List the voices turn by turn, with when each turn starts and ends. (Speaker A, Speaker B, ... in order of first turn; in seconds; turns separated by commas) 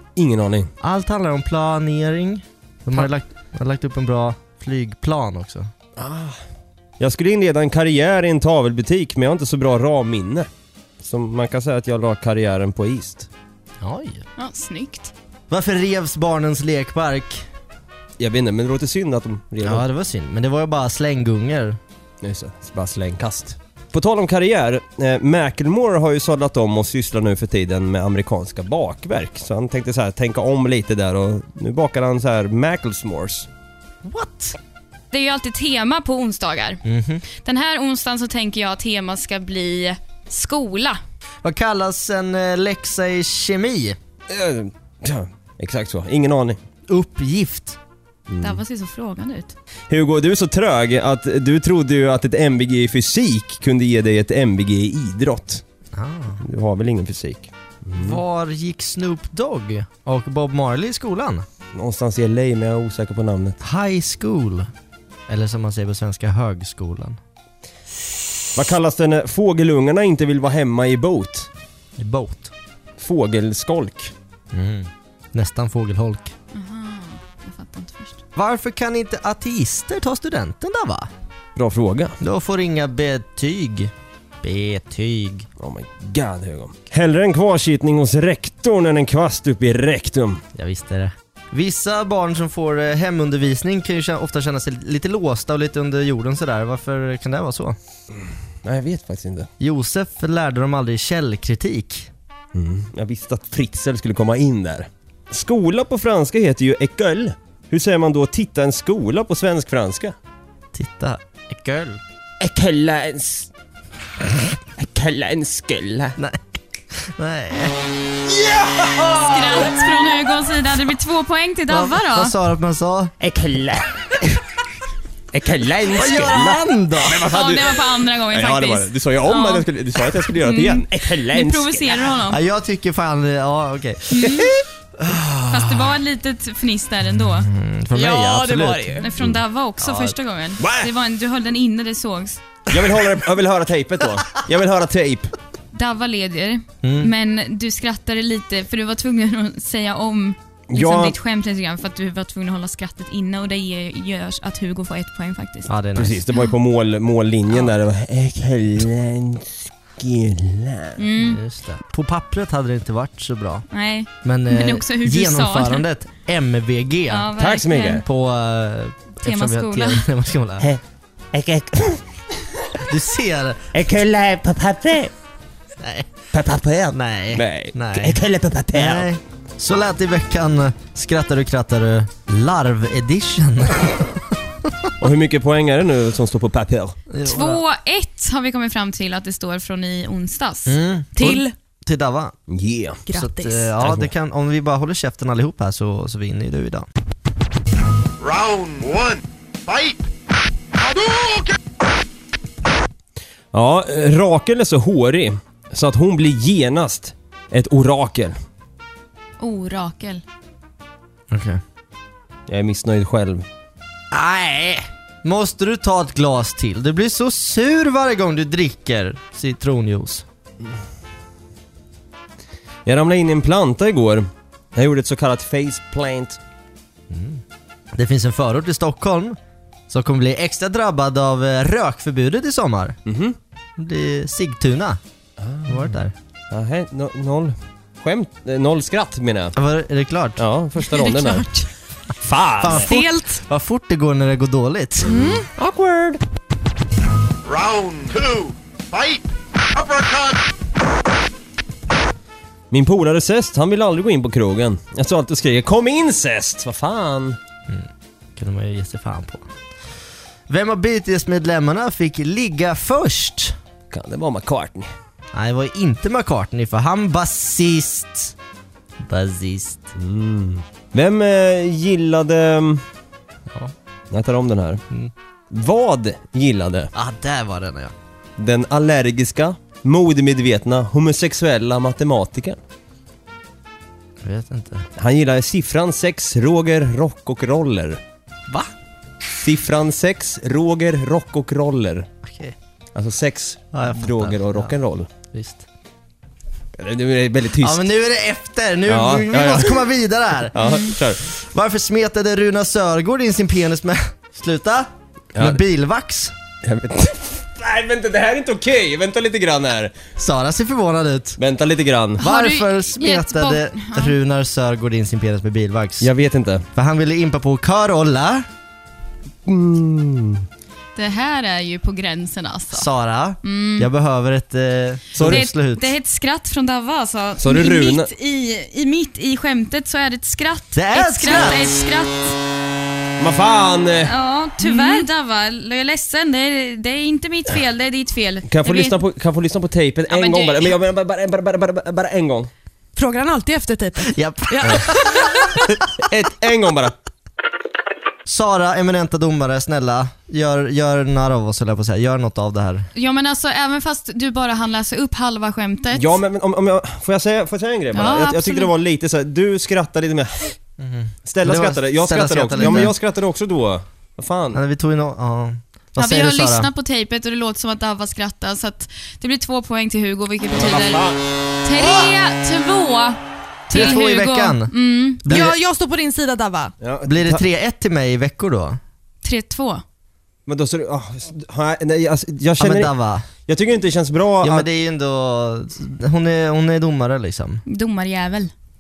Speaker A: 0.2-0.7, Speaker B: 0.8-5.7, Speaker A: 6.0-6.4, Speaker A: 7.0-10.5, Speaker A: 11.0-13.3, Speaker B: 13.8-14.2, Speaker C: 14.4-15.1, Speaker B: 15.5-17.5, Speaker A: 18.2-19.9, Speaker B: 19.6-21.8, Speaker A: 22.2-33.5, Speaker B: 34.0-34.6, Speaker C: 35.1-36.8, Speaker B: 36.9-37.2, Speaker C: 37.4-41.0, Speaker B: 41.4-44.0, Speaker A: 44.3-46.6, Speaker B: 46.9-47.8, Speaker A: 48.3-48.6, Speaker C: 48.4-49.5, Speaker A: 49.9-55.6, Speaker B: 55.9-56.4, Speaker A: 56.4-58.2, Speaker B: 58.0-61.5, Speaker A: 61.7-63.6, Speaker B: 63.6-64.7, Speaker B: 65.3-67.2, Speaker A: 68.5-71.5, Speaker B: 72.0-72.5, Speaker A: 73.0-74.1, Speaker B: 74.5-76.3, Speaker C: 76.5-78.2, Speaker B: 78.4-81.1, Speaker A: 81.6-82.2, Speaker B: 82.2-85.5, Speaker A: 85.6-90.4, Speaker B: 90.5-97.8, Speaker A: 98.2-99.5, Speaker B: 99.6-102.1, Speaker A: 102.5-110.2, Speaker B: 110.7-112.0, Speaker A: 112.4-113.5, Speaker A: 114.8-116.2, Speaker B: 116.2-117.8, Speaker A: 118.4-119.4, Speaker C: 119.2-122.3, Speaker B: 121.7-123.1, Speaker A: 123.2-124.2, Speaker A: 125.3-132.1, Speaker B: 125.9-127.2, Speaker C: 127.2-129.7, Speaker C: 130.3-132.4, Speaker B: 132.3-136.0, Speaker C: 134.1-134.5, Speaker C: 135.5-137.5, Speaker B: 137.4-139.1, Speaker D: 137.9-139.1, Speaker C: 138.4-142.4, Speaker B: 139.8-140.2, Speaker A: 140.6-140.9, Speaker A: 142.7-145.3, Speaker C: 145.7-155.7, Speaker B: 146.8-147.1, Speaker A: 150.7-151.1, Speaker B: 155.7-156.2, Speaker A: 155.9-161.0, Speaker C: 161.0-161.4, Speaker B: 161.2-163.7, Speaker C: 163.7-165.8, Speaker B: 164.2-167.4, Speaker C: 167.1-168.0, Speaker A: 167.4-168.0, Speaker B: 167.9-170.7, Speaker C: 169.2-170.1, Speaker A: 171.3-172.0, Speaker B: 172.8-173.7, Speaker A: 173.7-175.1, Speaker B: 175.8-176.1, Speaker A: 176.3-179.1, Speaker B: 176.9-178.2, Speaker B: 178.7-184.9, Speaker A: 185.0-187.0, Speaker B: 187.1-187.6, Speaker C: 187.2-191.5, Speaker B: 190.7-191.2, Speaker B: 191.8-192.4, Speaker A: 192.5-193.0, Speaker D: 193.1-193.7, Speaker B: 193.1-196.9, Speaker A: 193.8-194.1, Speaker E: 198.2-200.0, Speaker E: 200.8-201.5, Speaker A: 203.5-208.4, Speaker C: 209.4-210.2, Speaker B: 211.3-211.6, Speaker A: 212.5-213.4, Speaker B: 214.1-220.2, Speaker A: 222.9-226.4, Speaker B: 227.1-227.4, Speaker B: 227.9-229.4, Speaker B: 229.9-233.0, Speaker A: 233.1-233.4, Speaker B: 233.8-235.0, Speaker A: 235.4-236.0, Speaker B: 235.7-236.1, Speaker A: 236.5-239.5, Speaker B: 239.6-240.4, Speaker A: 240.4-241.5, Speaker C: 240.8-241.7, Speaker A: 242.2-242.9, Speaker B: 242.6-245.2, Speaker D: 242.9-243.4, Speaker A: 245.1-246.2, Speaker E: 247.4-249.2, Speaker E: 249.7-250.4, Speaker A: 252.7-257.4, Speaker B: 257.7-259.5, Speaker B: 260.5-263.6, Speaker A: 263.9-264.9, Speaker B: 265.3-268.4, Speaker B: 269.0-269.9, Speaker A: 270.0-272.8, Speaker B: 273.5-273.7, Speaker A: 274.1-274.8, Speaker A: 275.5-276.9, Speaker B: 276.9-277.9, Speaker A: 278.4-282.6, Speaker B: 284.2-284.9, Speaker A: 285.0-288.0, Speaker A: 289.4-292.1, Speaker B: 292.2-292.6, Speaker A: 292.9-295.1, Speaker B: 293.7-294.8, Speaker B: 295.3-295.6, Speaker A: 296.8-297.9, Speaker B: 297.6-306.3, Speaker A: 298.9-299.8, Speaker A: 300.5-301.2, Speaker A: 306.6-310.0, Speaker B: 310.2-311.4, Speaker A: 311.4-312.2, Speaker C: 312.2-314.2, Speaker B: 312.2-316.1, Speaker A: 316.0-316.6, Speaker B: 316.8-318.5, Speaker A: 319.4-320.4, Speaker C: 321.0-322.9, Speaker B: 322.7-325.9, Speaker C: 323.4-323.9, Speaker A: 325.2-325.4, Speaker C: 325.2-332.4, Speaker A: 327.4-328.1, Speaker B: 330.8-331.8, Speaker A: 333.2-334.1, Speaker C: 334.1-339.0, Speaker D: 334.6-335.1, Speaker A: 338.5-342.5, Speaker C: 340.1-340.8, Speaker D: 343.0-345.6, Speaker B: 344.1-345.2, Speaker A: 346.0-346.9, Speaker B: 348.3-352.9, Speaker C: 352.9-356.2, Speaker A: 355.9-360.6, Speaker C: 357.9-358.7, Speaker B: 360.8-362.9, Speaker A: 361.3-364.6, Speaker C: 362.5-362.9, Speaker B: 364.5-366.7, Speaker C: 366.0-371.1, Speaker A: 370.5-371.2, Speaker C: 371.6-375.2, Speaker B: 373.7-375.6, Speaker D: 375.3-376.7, Speaker A: 376.8-377.4, Speaker B: 377.1-378.8, Speaker C: 379.2-379.8, Speaker A: 380.5-382.9, Speaker B: 382.6-383.3, Speaker A: 383.5-384.7, Speaker B: 384.4-387.6, Speaker C: 387.7-388.5